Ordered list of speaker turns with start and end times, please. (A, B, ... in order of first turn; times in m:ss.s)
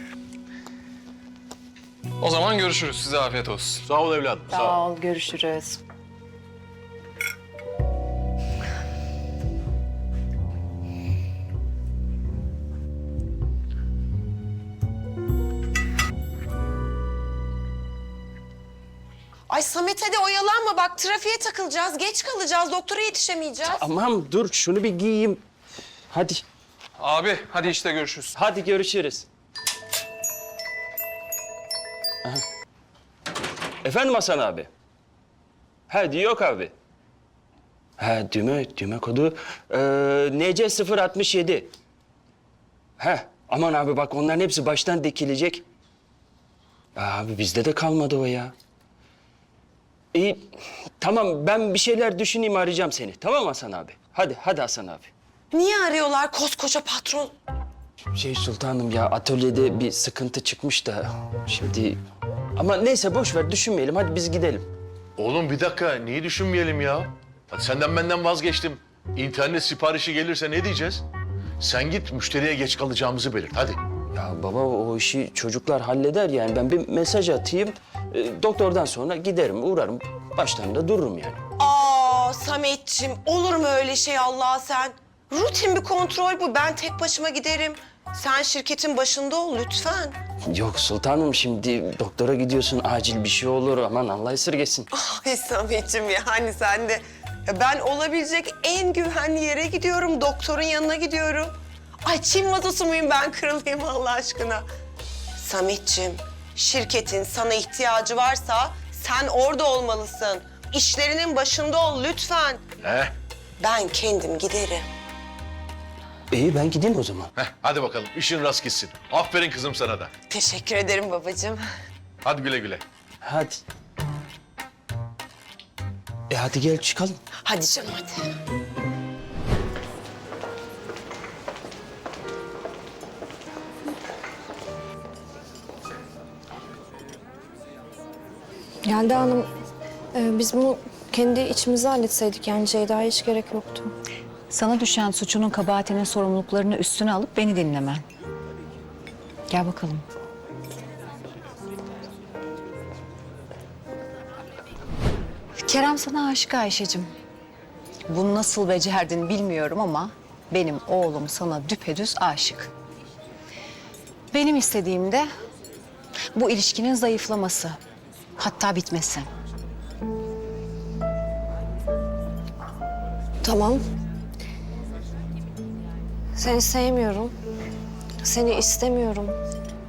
0:02.2-0:03.8 A
0:03.8-0:04.8 B
0:04.5-0:05.8 C
0:19.5-0:23.9 D
0:23.6-0:25.4 E
0:26.1-0:26.4 E
0:27.0-0:28.3 A
0:28.3-0:29.2 E
0:33.8-0:34.7 E
0:35.9-0:36.7 E
0:38.0-0:41.7 E
0:43.0-0:45.6 E
0:47.0-0:48.5 E
0:50.1-0:50.4 E
0:51.0-0:55.1 E
0:55.5-0:57.3 D
0:58.2-1:02.0 E
1:02.6-1:04.7 E
1:05.2-1:11.0 B
1:11.6-1:13.8 B
1:14.2-1:21.4 E
1:21.6-1:30.2 D
1:30.5-1:34.9 E
1:34.9-1:44.7 D
1:45.4-1:52.7 D
1:52.8-1:53.1 B
1:53.6-1:54.8 D
1:56.3-1:57.3 E
1:57.4-2:00.1 B
2:00.3-2:01.6 D
2:02.2-2:02.8 B
2:03.2-2:03.6 E
2:06.3-2:07.2 E
2:07.4-2:08.3 D
2:18.8-2:19.5 F
2:20.1-2:24.0 F
2:24.5-2:28.0 C
2:29.5-2:30.0 C
2:35.6-2:37.1 C
2:38.1-2:42.7 C
2:44.3-2:45.3 C
2:46.4-2:47.8 C
2:48.4-2:49.3 C
2:53.4-2:53.8 F
2:56.4-2:57.3 F
2:58.2-2:59.4 F